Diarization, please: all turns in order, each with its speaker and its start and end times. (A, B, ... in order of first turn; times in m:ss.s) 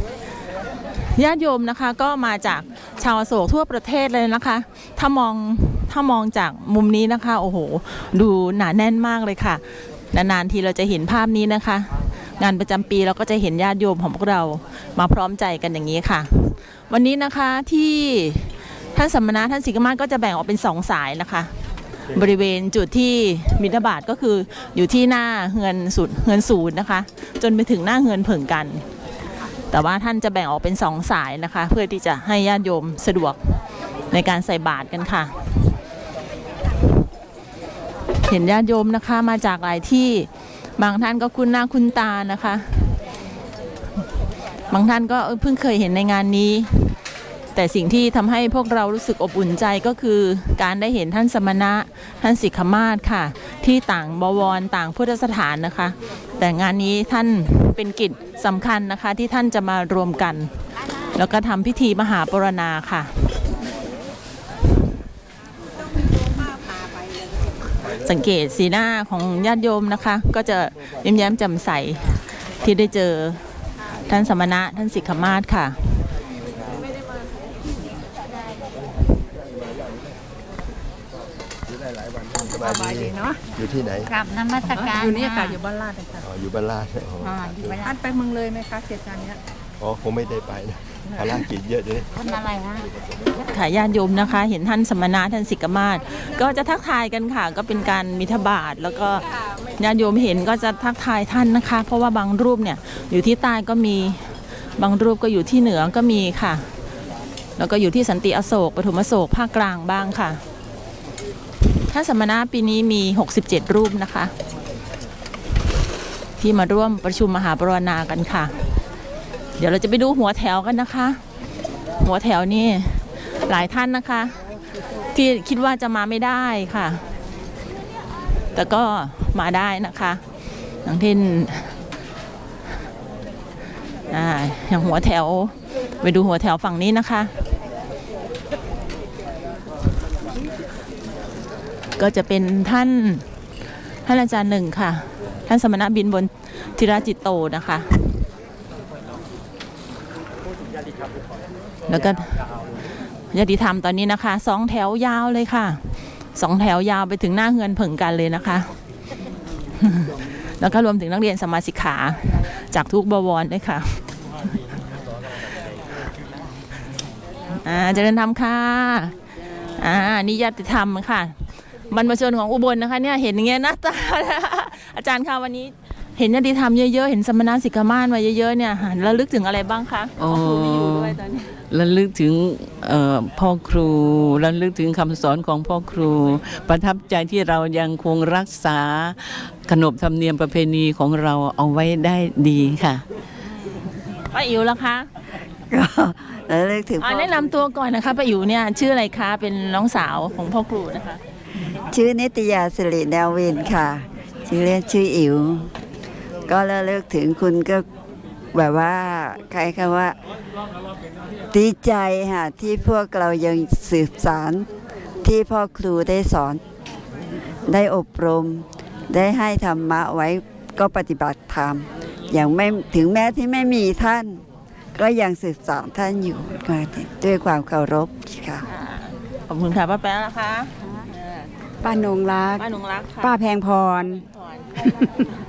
0:01.0-0:21.5 A
0:22.1-0:28.8 A
0:29.7-0:33.6 A
0:34.1-0:35.3 A
0:38.2-0:43.0 A
0:44.7-0:46.9 A
0:47.6-1:00.5 A
1:01.1-1:03.1 A
1:08.0-1:13.4 A
1:14.1-1:16.1 A
1:22.3-1:24.1 B
1:22.6-1:23.4 C
1:24.1-1:25.6 D
1:24.8-1:26.1 C
1:26.2-1:28.0 B
1:27.2-1:27.9 D
1:27.9-1:29.4 C
1:29.8-1:32.3 B
1:32.2-1:32.8 D
1:33.5-1:39.2 A
1:39.8-1:46.6 A
1:47.6-1:50.4 A
1:51.9-1:54.3 A
1:56.4-1:58.5 A
1:59.6-2:01.2 A
2:02.0-2:04.4 A
2:05.1-2:07.0 A
2:08.6-2:10.2 A
2:10.8-2:11.7 A
2:14.1-2:17.3 A
2:22.0-2:23.2 A
2:24.0-2:28.0 A
2:31.9-2:32.5 A
2:33.3-2:38.7 A
2:39.8-2:44.0 A
2:47.6-2:49.2 A
2:49.8-3:01.5 A
3:00.2-3:01.2 E
3:01.7-3:13.0 E
3:14.2-3:15.1 A
3:15.7-3:17.4 F
3:17.0-3:21.2 A
3:21.9-3:25.7 F
3:26.5-3:27.8 F
3:28.5-3:30.2 F
3:31.5-3:34.7 F
3:35.2-3:36.6 F
3:37.7-3:44.4 F
3:45.0-3:48.7 F
3:48.7-3:51.5 A
3:51.8-3:52.6 G
3:52.6-3:53.3 A
3:53.2-3:54.2 G
3:54.2-3:54.8 A
3:54.8-3:55.2 G